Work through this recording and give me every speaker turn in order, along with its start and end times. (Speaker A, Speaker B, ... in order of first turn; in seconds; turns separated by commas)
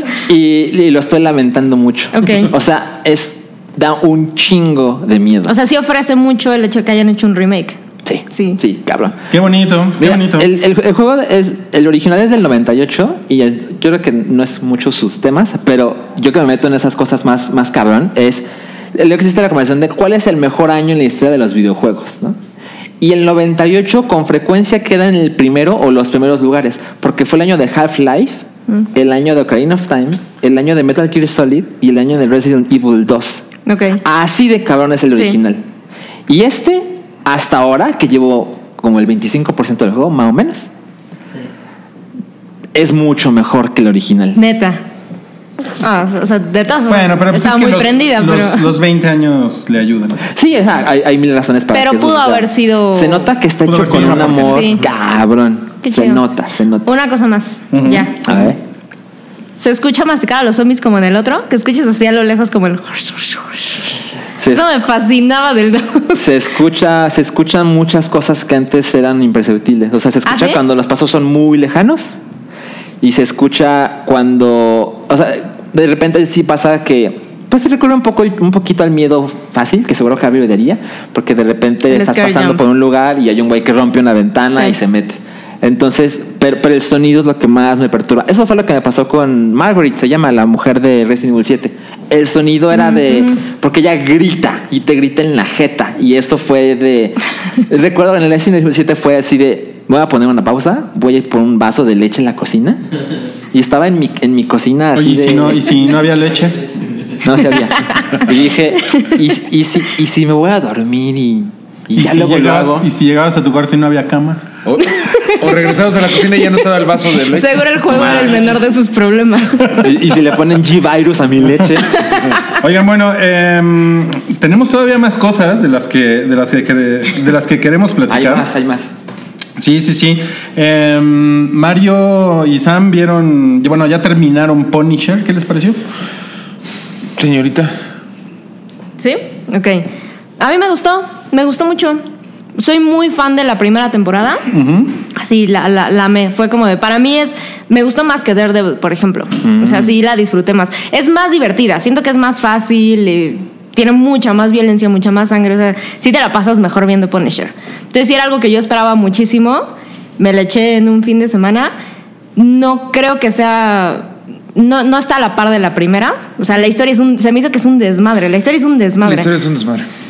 Speaker A: 0.2-5.5, Speaker B: 2.1-2.5, Speaker B: 5.5-7.8, Speaker A: 8.0-9.2, Speaker B: 8.3-8.6, Speaker C: 9.3-10.5, Speaker A: 10.0-22.4, Speaker A: 23.0-33.5, Speaker B: 33.6-34.0, Speaker A: 34.0-35.6, Speaker A: 36.3-40.7, Speaker A: 42.7-44.4, Speaker B: 44.4-44.8, Speaker B: 45.8-48.6, Speaker C: 46.9-50.2, Speaker A: 50.3-56.9, Speaker B: 51.7-53.3, Speaker C: 53.6-54.7, Speaker B: 54.4-54.8, Speaker B: 55.8-56.2, Speaker B: 56.8-58.2, Speaker C: 57.7-58.1, Speaker A: 58.2-58.6, Speaker B: 59.6-63.8, Speaker A: 64.4-64.6, Speaker B: 64.5-66.2, Speaker A: 66.1-72.2, Speaker B: 70.2-70.6, Speaker A: 73.0-102.8, Speaker B: 81.9-82.6, Speaker B: 92.7-93.3, Speaker A: 103.5-105.8, Speaker C: 104.9-106.6, Speaker A: 107.2-112.8, Speaker C: 112.0-114.5, Speaker D: 114.6-118.4, Speaker B: 115.0-115.5, Speaker B: 117.1-119.9, Speaker A: 119.8-122.0, Speaker C: 122.5-128.5, Speaker A: 128.1-128.9, Speaker C: 129.6-135.8, Speaker D: 137.2-137.7, Speaker B: 139.0-139.9, Speaker B: 140.4-142.0, Speaker B: 142.6-144.4, Speaker C: 144.5-145.0, Speaker B: 145.1-159.7, Speaker A: 149.4-149.9, Speaker B: 160.2-161.7, Speaker B: 162.3-169.3, Speaker D: 169.0-169.9